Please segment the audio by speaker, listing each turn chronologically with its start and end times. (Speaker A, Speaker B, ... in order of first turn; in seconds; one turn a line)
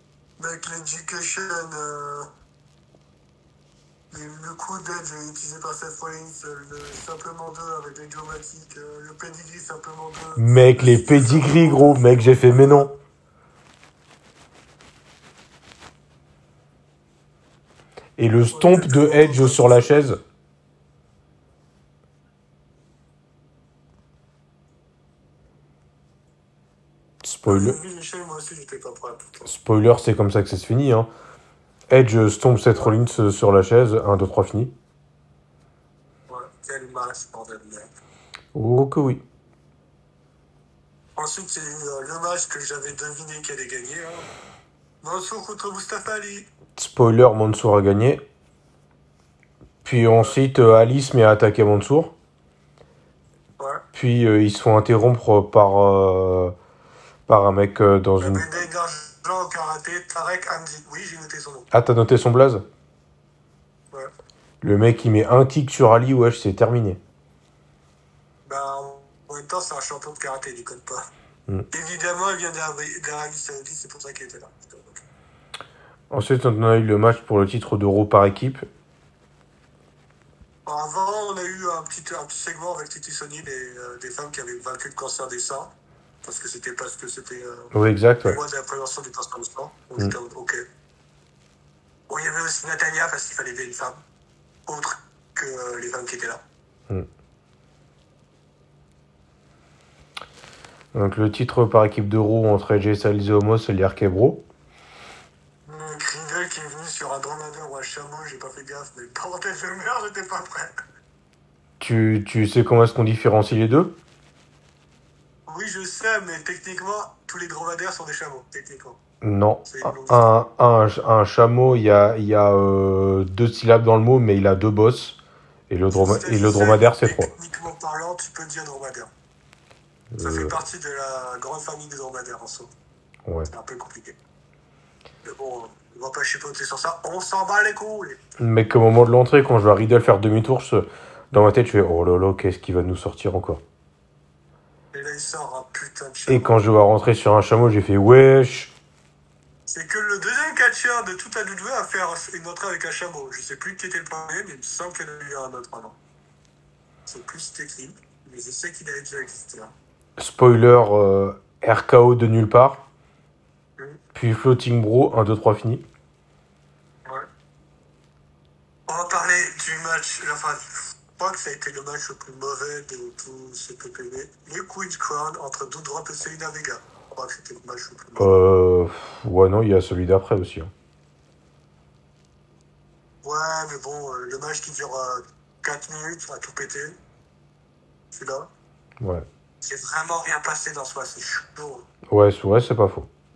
Speaker A: 0.4-2.3
Speaker A: 4.1-12.9
Speaker B: 10.4-12.9
Speaker B: 18.2-20.2
Speaker A: 18.4-20.1
Speaker B: 27.2-27.8
Speaker A: 27.5-29.5
Speaker B: 29.4-31.1
Speaker B: 31.9-34.7
Speaker A: 36.3-37.9
Speaker B: 38.5-39.2
Speaker A: 41.2-44.3
Speaker A: 45.0-46.5
Speaker B: 46.8-48.2
Speaker B: 49.8-52.1
Speaker A: 53.6-53.8
Speaker B: 53.9-56.5
Speaker B: 57.3-58.6
Speaker A: 58.2-61.7
Speaker B: 61.7-62.6
Speaker B: 64.6-67.0
Speaker A: 68.5-71.1
Speaker A: 71.7-75.0
Speaker B: 76.1-78.7
Speaker A: 80.7-87.7
Speaker B: 87.7-88.4
Speaker A: 88.2-90.6
Speaker A: 92.1-94.0
Speaker A: 94.7-96.4
Speaker B: 100.9-104.5
Speaker A: 105.7-110.7
Speaker B: 111.8-114.0
Speaker A: 115.5-119.0
Speaker B: 119.2-125.2
Speaker A: 119.7-120.3
Speaker B: 125.7-127.3
Speaker A: 125.9-129.1
Speaker B: 130.1-130.6
Speaker A: 130.2-132.7
Speaker A: 133.5-134.2
Speaker A: 135.2-138.2
Speaker B: 138.4-143.6
Speaker A: 144.9-146.6
Speaker B: 146.3-148.7
Speaker A: 149.7-156.0
Speaker A: 157.1-159.7
Speaker B: 160.2-162.9
Speaker B: 164.2-165.8
Speaker A: 168.9-178.3
Speaker B: 178.2-180.7
Speaker A: 183.2-187.0
Speaker A: 188.1-188.5
Speaker B: 189.0-189.3
Speaker A: 189.6-191.9
Speaker B: 192.1-193.1